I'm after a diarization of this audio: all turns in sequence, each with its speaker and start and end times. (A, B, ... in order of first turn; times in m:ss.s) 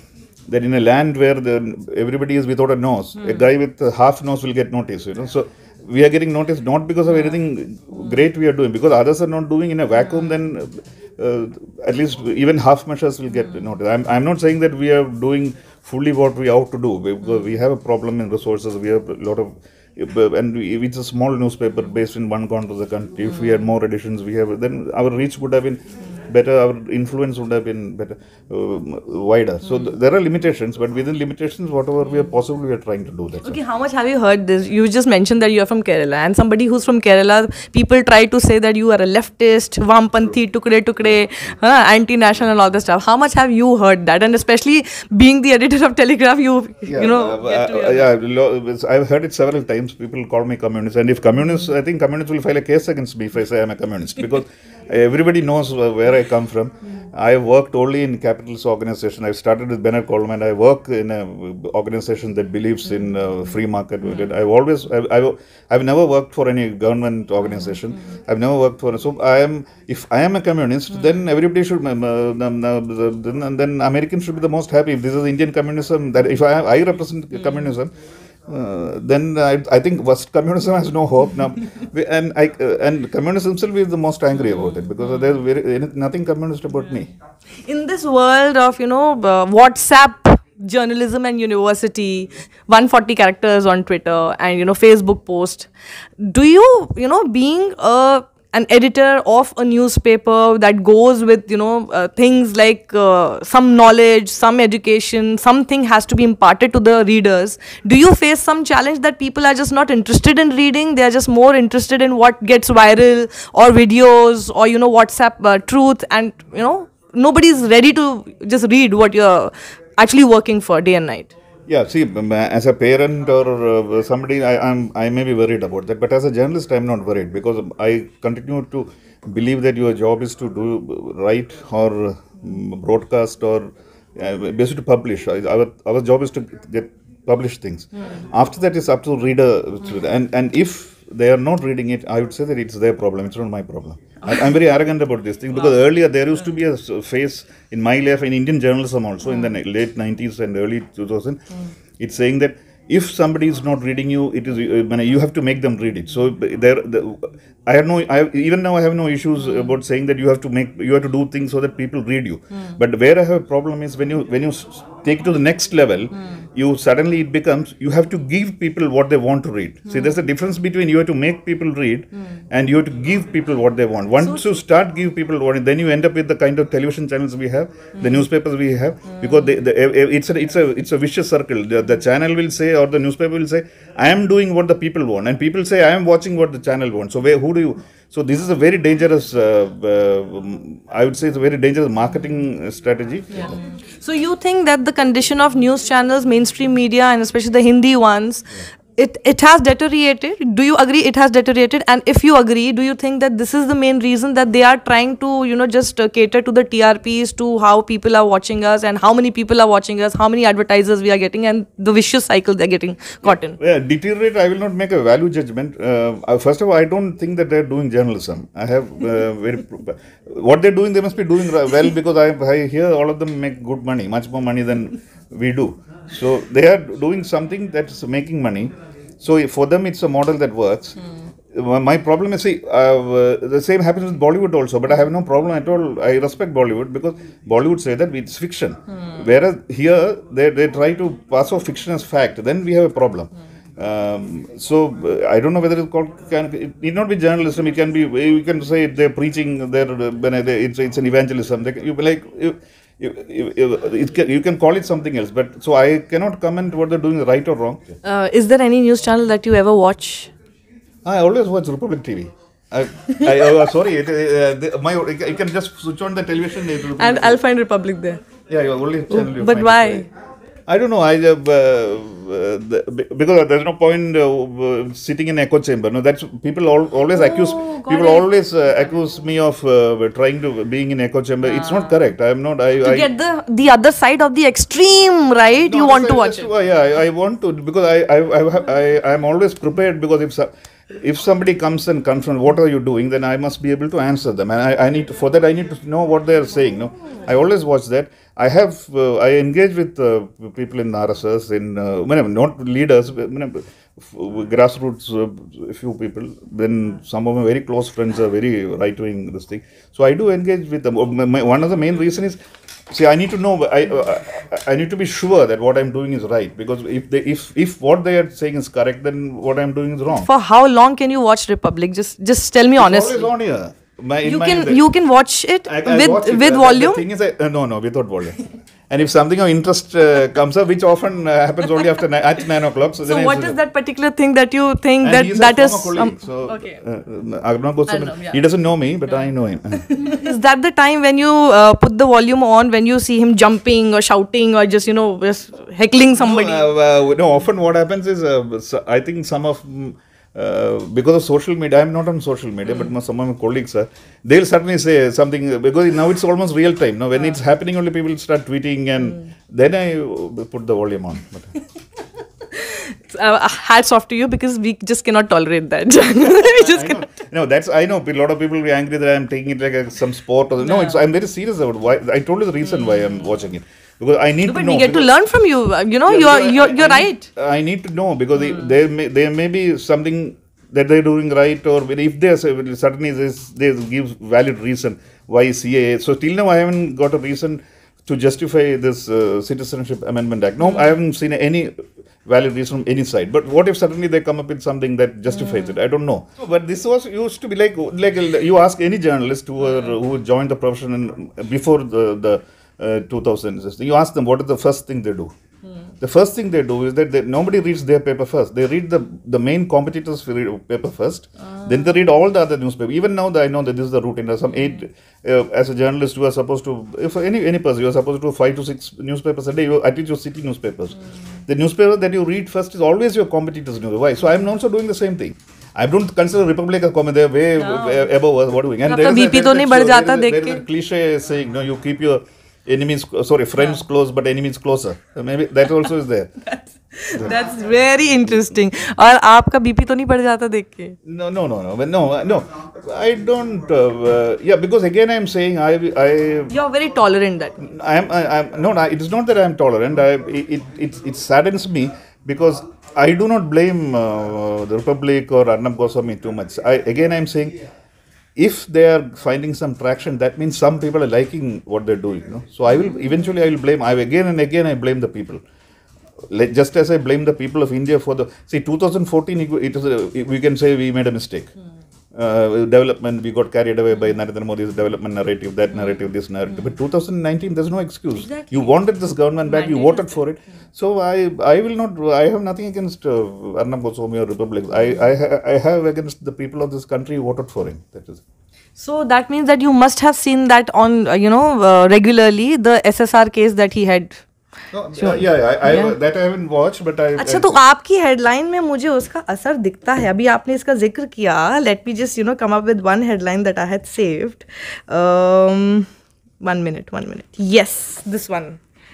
0:00.5-0:33.6 A
0:33.4-0:48.1 B
0:46.9-1:17.9 A
1:18.5-1:27.1 A
1:27.6-1:35.7 B
1:36.2-2:01.4 B
2:01.7-2:31.4 A
2:24.2-2:24.5 B
2:32.0-3:13.6 A
2:54.2-2:54.5 B
3:13.3-3:33.6 B
3:33.6-3:51.0 A
3:51.5-4:18.0 A
4:18.0-4:20.3 B
4:21.0-4:27.4 A
4:27.0-4:28.2 B
4:28.5-4:30.0 A
4:29.1-4:30.1 B
4:30.7-4:43.1 A
4:37.1-4:38.3 B
4:41.5-4:42.0 B
4:42.8-4:46.5 B
4:45.7-5:12.4 A
5:12.9-5:20.3 A
5:20.1-5:23.3 B
5:22.8-5:24.8 A
5:24.2-5:27.0 B
5:25.6-5:28.4 A
5:28.9-5:33.6 A
5:33.0-5:36.8 B
5:35.0-5:39.9 A
5:37.9-5:38.4 B
5:39.9-5:46.6 B
5:46.2-6:01.6 A
6:02.5-6:07.1 B
6:06.5-6:15.1 A
6:10.6-6:11.0 B
6:14.4-6:17.3 B
6:16.1-6:45.3 A
6:46.0-7:01.0 A
7:01.5-7:16.3 A
7:07.6-7:08.1 B
7:08.8-7:10.6 B
7:16.4-7:21.0 B
7:18.2-7:18.6 A
7:21.0-7:26.5 A
7:26.5-7:27.6 B
7:27.6-7:37.6 A
7:38.4-7:45.4 A
7:46.3-7:51.5 A
7:52.1-8:08.2 A
7:58.2-7:58.7 B
7:59.4-8:00.2 B
8:08.8-8:14.2 B
8:14.7-8:17.6 A
8:14.9-8:15.9 B
8:17.2-8:25.9 B
8:26.4-8:28.6 B